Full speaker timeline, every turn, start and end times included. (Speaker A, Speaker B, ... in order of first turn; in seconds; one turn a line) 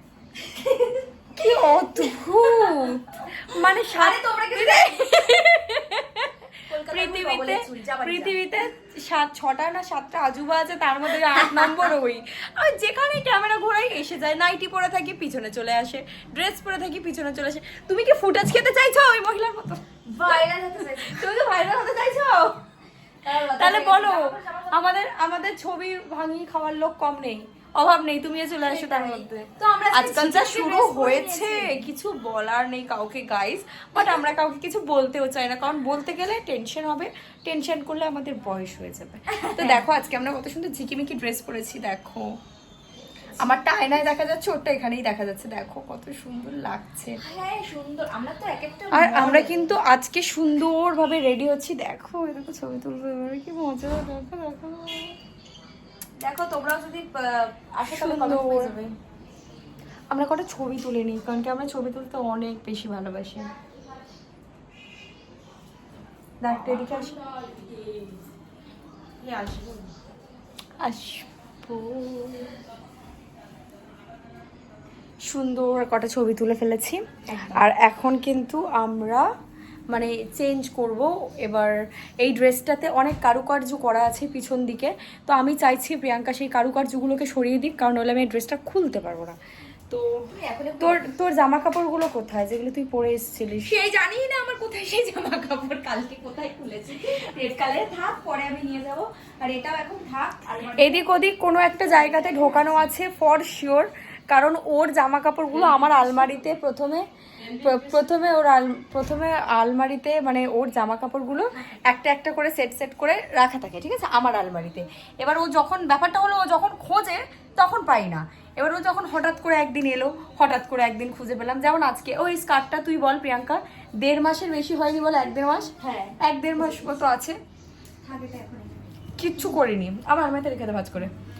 Speaker A: 0.4-5.4
Speaker B: 1.4-6.4
Speaker A: 6.7-8.5
Speaker B: 6.9-20.4
Speaker A: 11.3-11.9
Speaker A: 20.1-22.6
Speaker B: 21.0-21.7
Speaker A: 23.2-25.0
Speaker B: 23.4-42.3
Speaker A: 28.6-31.9
Speaker A: 34.0-34.3
Speaker A: 39.3-39.9
Speaker A: 43.3-43.6
Speaker B: 43.4-47.2
Speaker A: 47.2-49.7
Speaker B: 48.9-55.1
Speaker A: 56.2-58.9
Speaker B: 57.9-58.8
Speaker B: 60.1-63.5
Speaker B: 66.4-67.2
Speaker A: 66.5-68.1
Speaker A: 69.2-69.9
Speaker B: 70.8-72.4
Speaker B: 75.3-79.3
Speaker A: 77.3-77.7
Speaker B: 79.9-89.4
Speaker B: 89.9-90.3
Speaker A: 90.3-91.0
Speaker B: 90.8-93.8
Speaker A: 93.7-102.9
Speaker B: 100.8-127.3
Speaker A: 105.5-106.4
Speaker A: 107.4-108.1
Speaker A: 111.5-111.8
Speaker A: 125.8-126.9
Speaker A: 128.0-129.6
Speaker B: 129.2-131.1